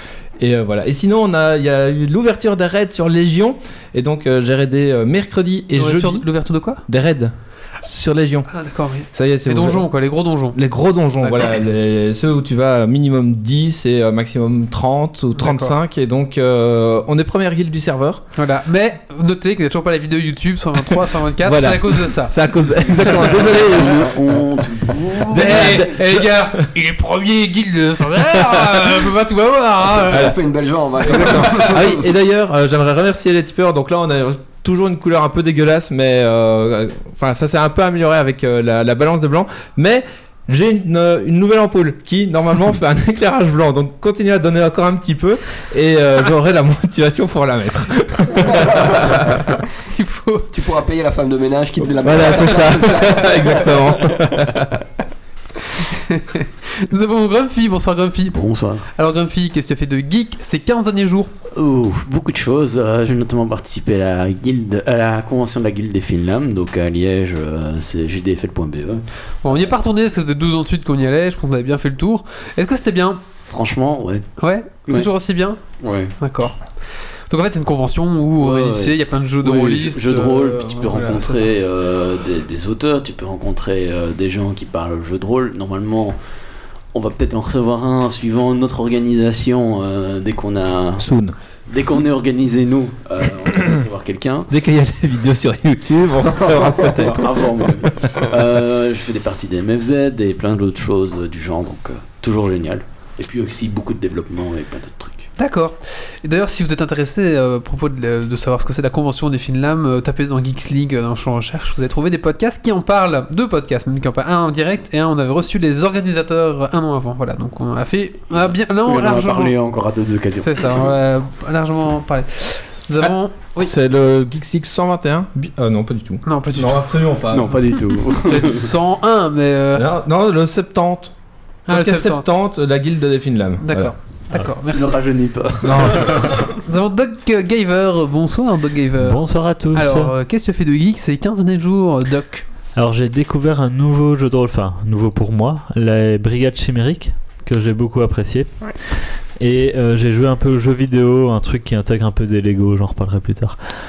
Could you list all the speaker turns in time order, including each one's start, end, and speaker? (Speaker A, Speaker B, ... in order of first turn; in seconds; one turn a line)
Speaker A: 0.4-6.3
Speaker B: 5.7-6.8
Speaker A: 6.9-8.5
Speaker B: 8.5-10.6
Speaker A: 9.1-9.9
Speaker A: 10.5-18.2
Speaker B: 15.3-15.7
Speaker B: 18.4-22.3
Speaker A: 21.4-24.4
Speaker C: 23.4-25.9
Speaker A: 25.2-26.6
Speaker B: 25.3-30.3
Speaker A: 28.2-28.9
Speaker D: 29.8-32.0
Speaker A: 30.1-30.3
Speaker A: 31.0-49.5
Speaker D: 48.7-49.0
Speaker B: 49.9-50.5
Speaker D: 50.5-54.6
Speaker A: 51.9-54.7
Speaker B: 52.2-53.4
Speaker B: 55.8-58.4
Speaker C: 58.3-58.9
Speaker B: 58.9-61.3
Speaker C: 61.5-69.7
Speaker B: 69.4-73.2
Speaker C: 73.5-74.3
Speaker B: 74.4-75.6
Speaker C: 75.8-76.1
Speaker B: 76.2-76.6
Speaker B: 77.3-81.5
Speaker C: 78.4-86.2
Speaker C: 86.9-91.0
Speaker A: 91.0-91.3
Speaker C: 91.7-94.5
Speaker A: 94.5-97.9
Speaker C: 96.7-105.3
Speaker B: 105.4-119.6
Speaker C: 118.8-120.9
Speaker B: 120.4-123.7
Speaker A: 123.6-127.8
Speaker B: 126.2-126.9
Speaker C: 127.3-128.7
Speaker B: 128.2-129.9
Speaker A: 129.7-131.1
Speaker B: 131.7-132.3
Speaker A: 131.7-133.9
Speaker B: 133.6-135.0
Speaker C: 134.7-136.4
Speaker A: 135.6-136.5
Speaker B: 136.6-139.2
Speaker E: 139.0-140.1
Speaker B: 139.7-142.4
Speaker E: 142.7-153.6